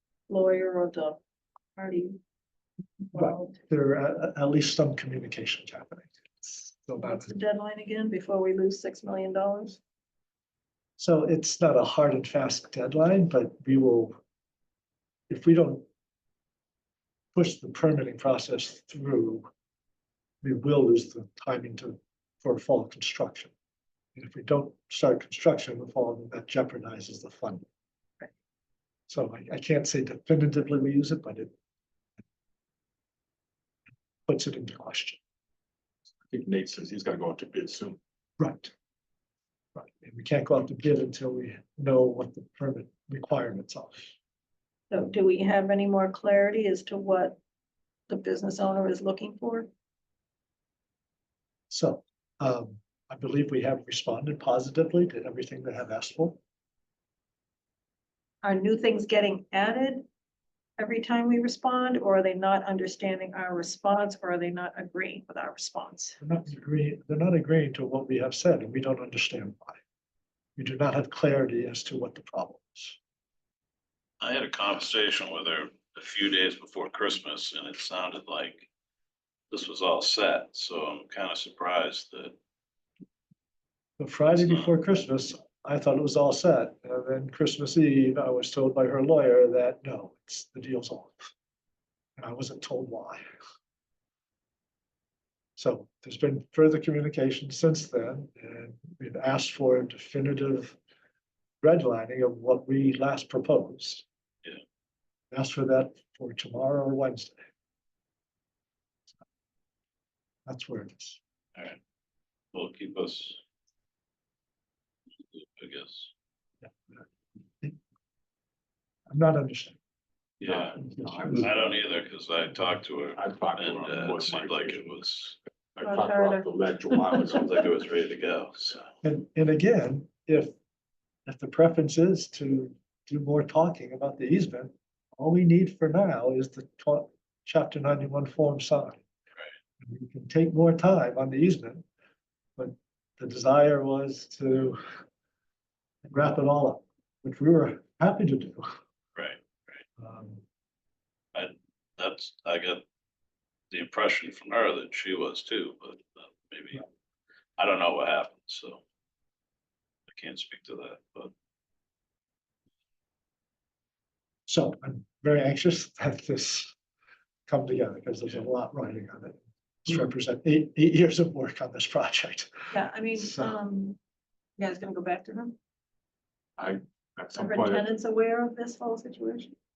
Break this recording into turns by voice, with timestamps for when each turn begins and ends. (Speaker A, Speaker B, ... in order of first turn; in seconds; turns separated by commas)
Speaker A: 0.3-1.2, Speaker A: 1.8-2.2, Speaker A: 3.0-3.6, Speaker B: 3.1-7.3, Speaker A: 7.0-9.8, Speaker B: 11.0-14.1, Speaker B: 15.3-15.8, Speaker B: 17.3-19.5, Speaker B: 20.4-23.5, Speaker B: 24.1-27.6, Speaker B: 29.1-31.5, Speaker B: 34.3-35.2, Speaker C: 36.3-38.0, Speaker B: 38.4-38.7, Speaker B: 39.7-44.1, Speaker A: 44.9-47.4, Speaker A: 48.1-49.7, Speaker B: 51.7-56.4, Speaker A: 58.4-60.0, Speaker A: 60.8-66.2, Speaker B: 66.2-69.8, Speaker B: 70.6-73.0, Speaker D: 74.2-78.7, Speaker D: 79.5-82.3, Speaker B: 84.0-91.3, Speaker D: 84.3-84.7, Speaker B: 92.2-93.2, Speaker B: 95.6-100.8, Speaker B: 101.6-104.0, Speaker B: 105.3-107.3, Speaker B: 110.5-111.2, Speaker D: 112.5-113.4, Speaker D: 115.3-116.1, Speaker B: 116.6-117.0, Speaker B: 119.1-119.8, Speaker D: 120.4-120.8, Speaker C: 120.4-121.8, Speaker D: 121.3-125.4, Speaker C: 123.2-124.9, Speaker C: 125.7-127.6, Speaker A: 125.8-127.4, Speaker D: 127.2-128.8, Speaker B: 129.0-130.5, Speaker B: 131.2-139.0, Speaker B: 139.8-141.8, Speaker B: 142.6-144.8, Speaker B: 146.0-148.7, Speaker D: 149.1-149.8, Speaker B: 150.0-150.4, Speaker D: 151.3-152.8, Speaker D: 153.7-156.8, Speaker D: 157.6-158.8, Speaker D: 160.1-161.3, Speaker B: 164.5-166.7, Speaker B: 167.5-172.5, Speaker A: 172.7-174.0, Speaker B: 173.2-173.6, Speaker A: 174.6-175.6, Speaker C: 176.6-177.9, Speaker A: 177.3-179.5